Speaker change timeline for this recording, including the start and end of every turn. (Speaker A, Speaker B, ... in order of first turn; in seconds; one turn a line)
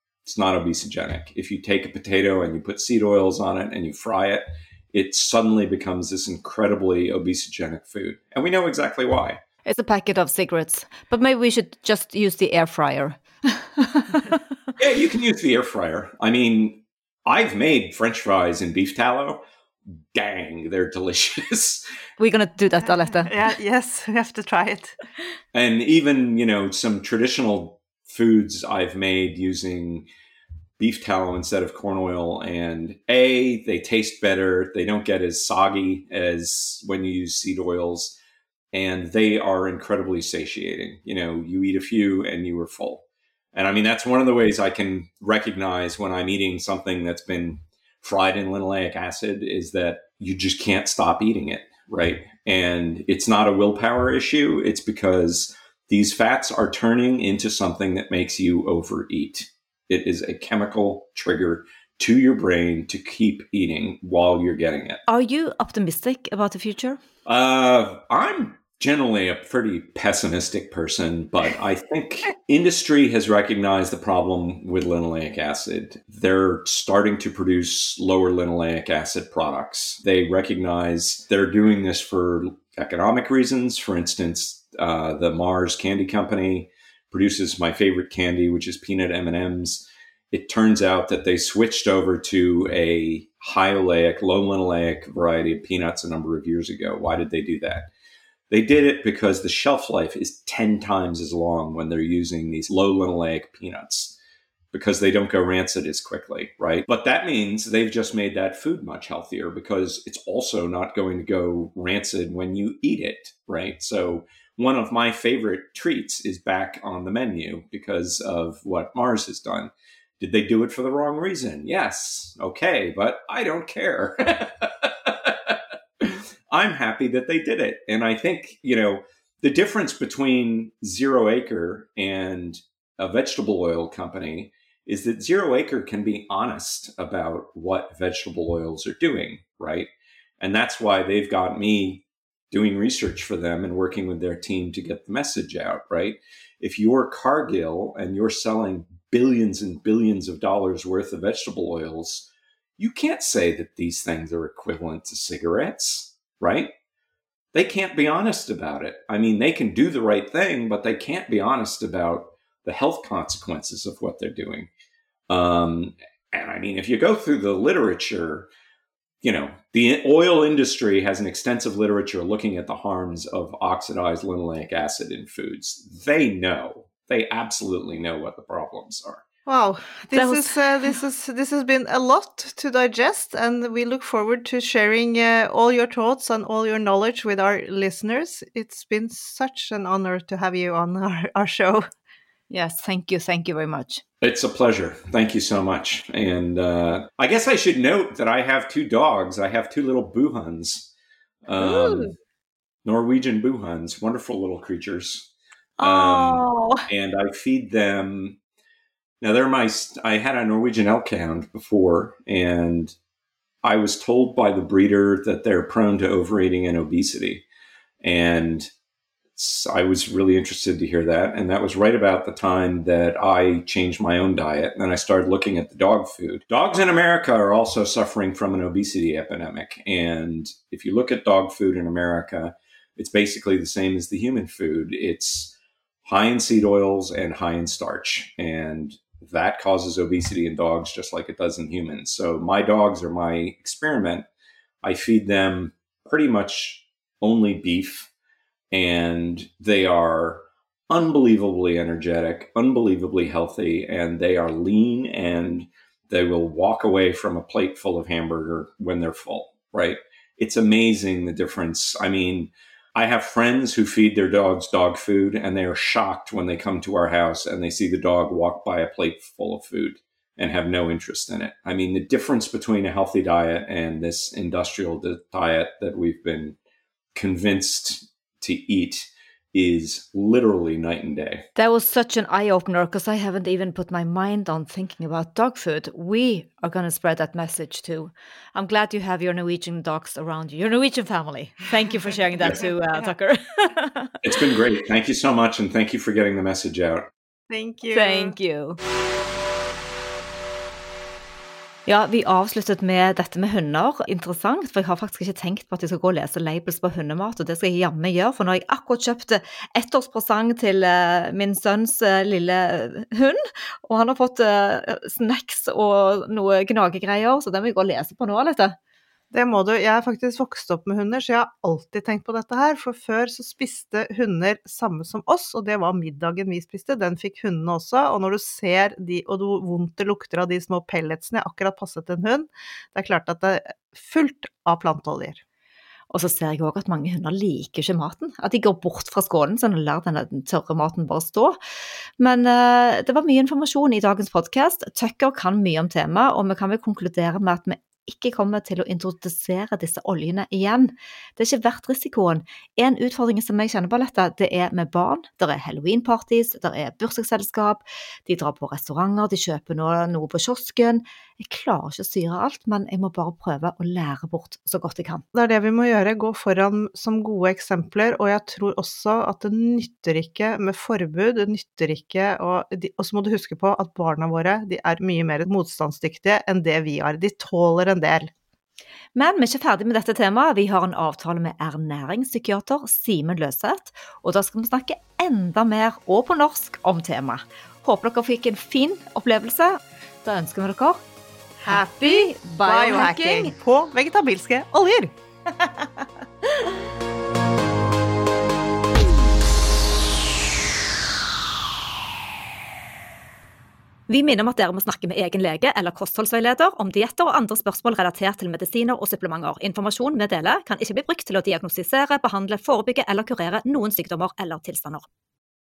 Speaker A: 0.2-9.4
Speaker B: 9.7-14.3
Speaker A: 14.8-19.4
Speaker A: 20.1-21.8
Speaker B: 22.2-23.3
Speaker C: 23.2-24.9
Speaker A: 25.5-30.1
Speaker A: 30.8-38.1
Speaker A: 38.7-65.0
Speaker B: 65.1-67.0
Speaker A: 67.2-97.9
Speaker A: 98.5-104.2
Speaker A: 104.7-139.9
Speaker A: 140.4-156.7
Speaker A: 157.5-164.7
Speaker A: 165.3-168.5
Speaker A: 169.2-179.2
Speaker C: 179.4-191.9
Speaker B: 180.1-180.5
Speaker B: 192.5-194.0
Speaker A: 194.2-200.9
Speaker A: 201.4-202.1
Speaker B: 201.6-202.1
Speaker A: 202.8-208.4
Speaker B: 205.8-206.9
Speaker A: 209.2-212.9
Speaker A: 213.6-217.4
Speaker A: 218.0-218.7
Speaker A: 219.4-244.2
Speaker A: 244.8-248.1
Speaker A: 248.7-276.6
Speaker A: 277.1-281.5
Speaker B: 281.6-294.1
Speaker A: 294.2-297.1
Speaker C: 297.5-298.3
Speaker B: 297.9-298.8
Speaker B: 301.9-318.8
Speaker C: 319.3-335.4
Speaker B: 336.1-341.6
Speaker B: 342.2-365.2
Speaker C: 365.3-378.3
Speaker B: 379.1-391.0
Speaker B: 391.6-393.5
Speaker C: 391.6-395.1
Speaker B: 404.1-415.1